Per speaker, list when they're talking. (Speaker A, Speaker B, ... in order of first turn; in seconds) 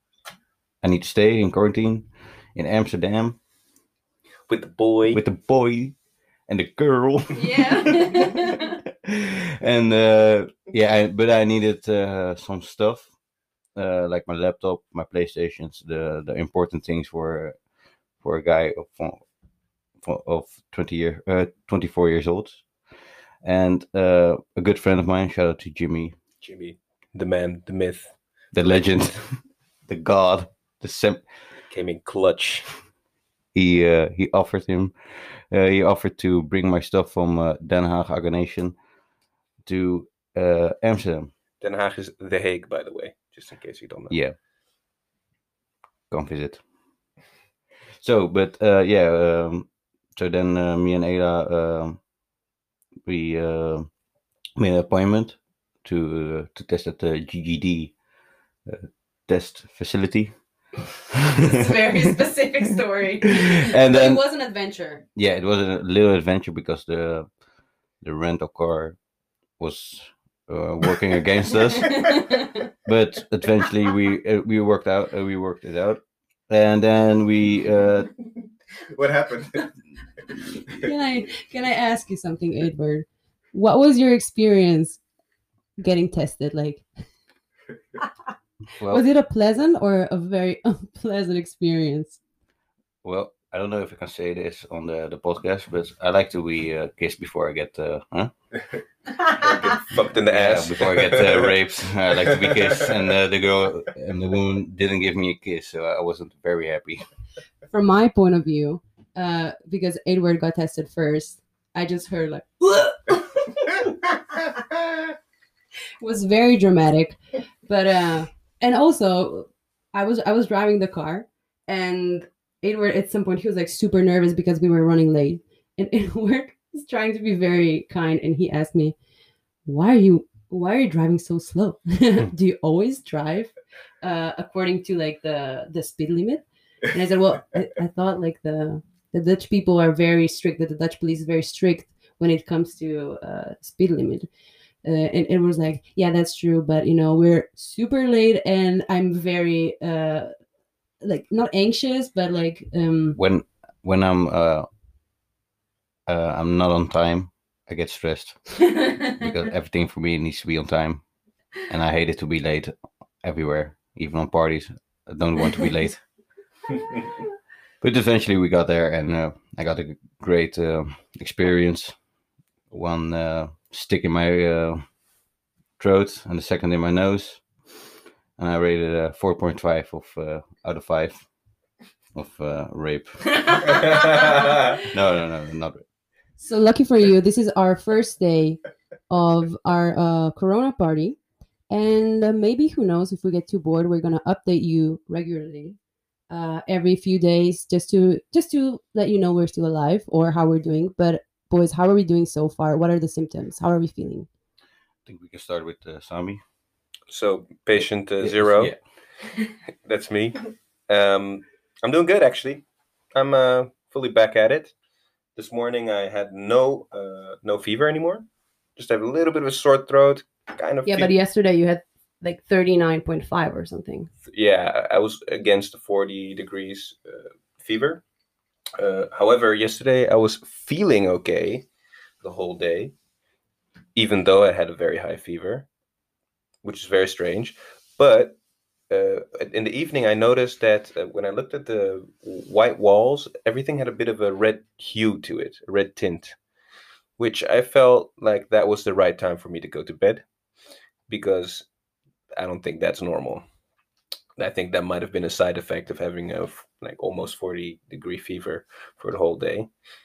Speaker A: 0.8-3.4, 5.1-6.0, 6.5-13.1, 13.8-17.6, 18.2-19.2, 20.0-22.6, 23.4-26.1, 28.5-31.2, 33.5-38.8, 39.6-41.3, 44.1-44.4, 46.1-46.6, 48.0-52.0, 53.1-53.9, 54.6-57.9, 58.7-60.3, 61.1-61.9, 63.2-64.2, 65.2-67.3, 68.0-69.0, 69.6-78.1, 88.8-89.0, 93.0-98.3, 100.3-107.1, 153.2-154.7, 156.1-161.0, 161.7-166.0, 167.8-171.9, 172.7-174.8, 175.8-177.4, 178.4-181.2, 182.2-183.7, 184.8-185.8, 205.1-206.4, 208.2-208.8
Speaker B: 4.5-5.2, 26.4-28.1, 31.7-32.7, 41.6-44.1, 78.8-79.7, 99.4-101.5, 102.3-103.0, 207.1-208.7, 209.8-212.6, 213.2-214.7, 215.4-218.2, 218.8-221.1, 224.3-228.0, 228.8-231.7, 232.2-232.9, 234.0-235.7, 236.6-238.4, 238.9-246.4, 247.2-250.2, 251.1-251.7, 252.4-253.4, 254.4-259.7
Speaker C: 7.3-8.8, 61.4-65.0, 71.7-72.7, 80.7-85.0, 85.8-86.8, 88.9-92.2, 107.7-114.6, 116.0-128.9, 129.7-144.3, 144.8-150.3, 151.0-153.2, 183.5-184.5, 186.4-191.2, 191.7-195.8, 196.3-204.3, 220.8-224.1